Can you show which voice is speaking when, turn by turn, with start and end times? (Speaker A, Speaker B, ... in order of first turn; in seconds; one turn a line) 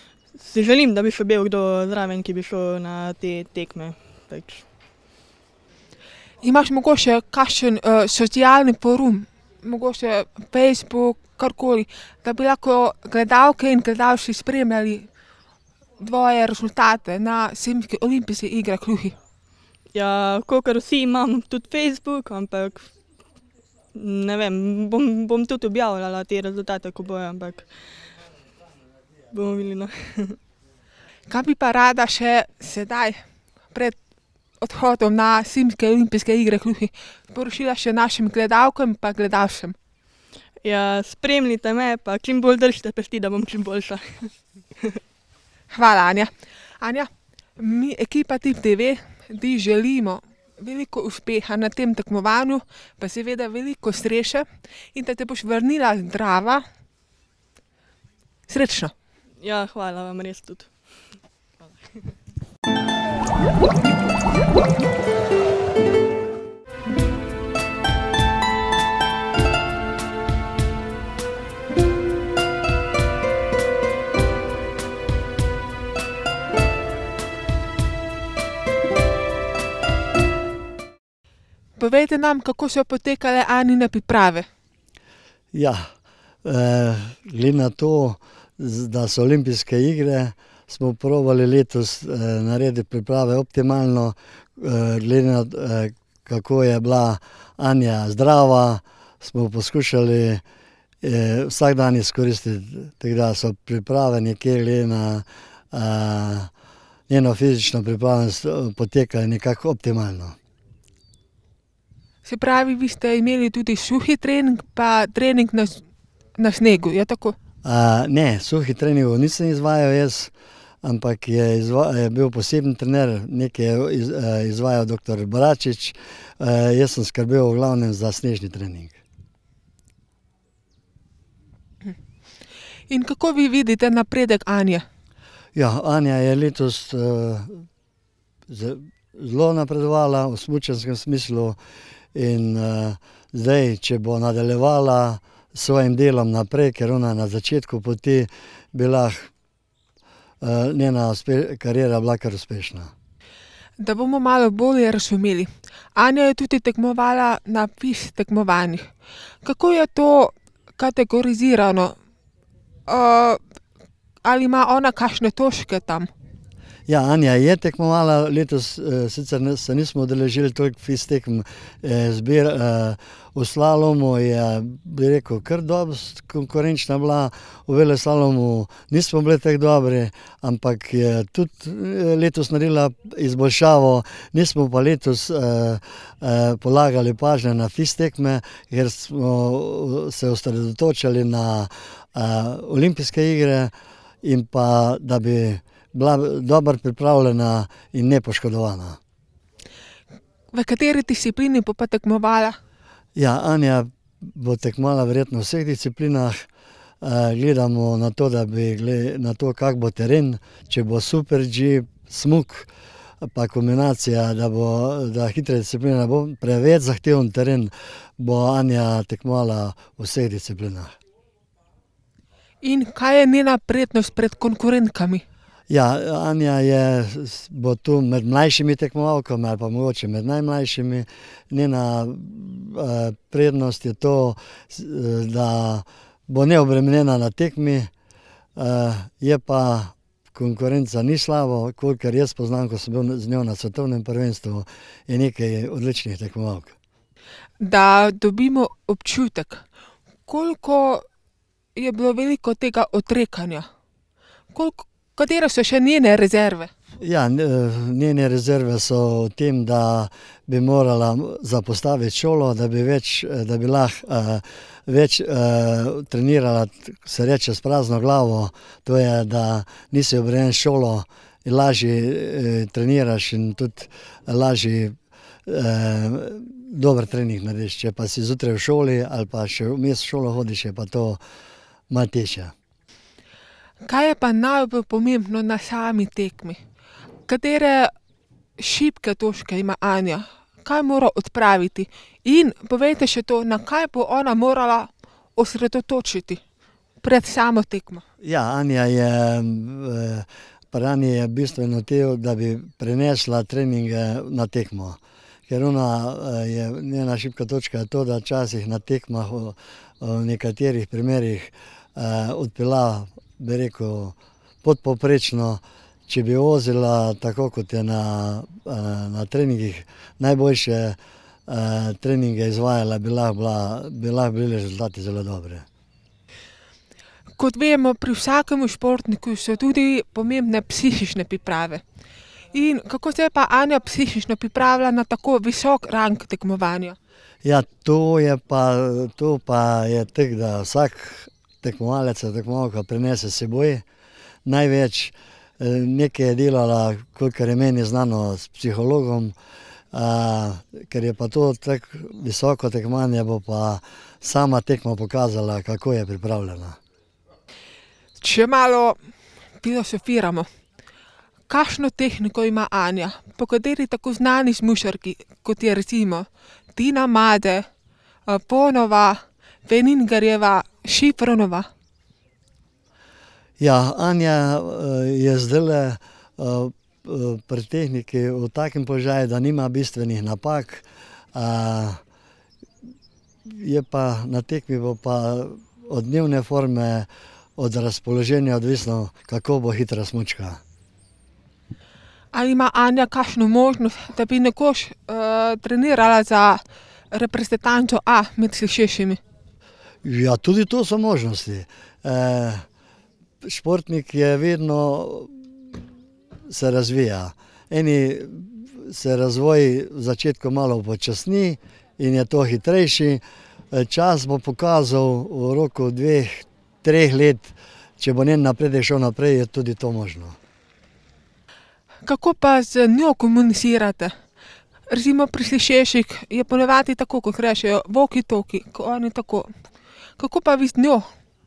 Speaker A: 0.3-4.6
Speaker B: 6.4-15.1
Speaker B: 16.0-19.1
Speaker A: 19.9-22.9
Speaker A: 23.9-27.7
Speaker A: 29.3-30.4
Speaker B: 31.3-34.0
Speaker B: 34.6-39.8
Speaker A: 40.6-45.0
Speaker B: 45.7-56.6
Speaker B: 58.5-58.9
Speaker A: 59.4-60.7
Speaker B: 81.8-84.5
Speaker C: 85.5-85.9
Speaker C: 86.4-100.4
Speaker C: 101.0-106.5
Speaker C: 107.1-110.4
Speaker B: 112.2-115.8
Speaker B: 116.4-117.4
Speaker C: 117.6-120.3
Speaker C: 120.8-128.9
Speaker B: 132.9-134.8
Speaker C: 135.5-137.6
Speaker C: 138.5-141.6
Speaker C: 142.1-149.3
Speaker C: 150.4-152.9
Speaker B: 153.8-158.9
Speaker B: 159.4-161.9
Speaker B: 162.9-163.4
Speaker B: 164.2-166.1
Speaker C: 166.9-193.7
Speaker C: 194.2-199.0
Speaker B: 200.5-202.6
Speaker C: 203.2-206.5
Speaker C: 207.0-212.7
Speaker C: 213.2-221.0
Speaker B: 222.6-225.2
Speaker C: 225.7-237.9
Speaker C: 238.6-246.8
Speaker B: 247.6-249.7
Speaker B: 250.2-251.0
Speaker B: 251.8-253.7
Speaker B: 254.5-256.7
Speaker C: 257.0-281.2
Speaker C: 281.9-282.5
Speaker B: 283.8-286.6
Speaker B: 287.2-287.9
Speaker B: 288.6-296.4
Speaker B: 297.0-298.0
Speaker C: 298.2-325.6
Speaker B: 327.4-331.8
Speaker B: 332.5-337.0
Speaker C: 337.4-343.8
Speaker C: 344.4-349.4
Speaker C: 349.9-356.8
Speaker B: 358.2-359.0
Speaker B: 359.6-360.5
Speaker B: 361.5-367.7
Speaker B: 368.3-371.7
Speaker C: 373.6-382.0
Speaker C: 383.4-390.6
Speaker B: 392.3-399.2
Speaker C: 400.0-402.6
Speaker C: 403.4-405.8
Speaker C: 406.5-420.4
Speaker B: 422.0-424.1
Speaker B: 424.9-429.5
Speaker B: 430.2-431.1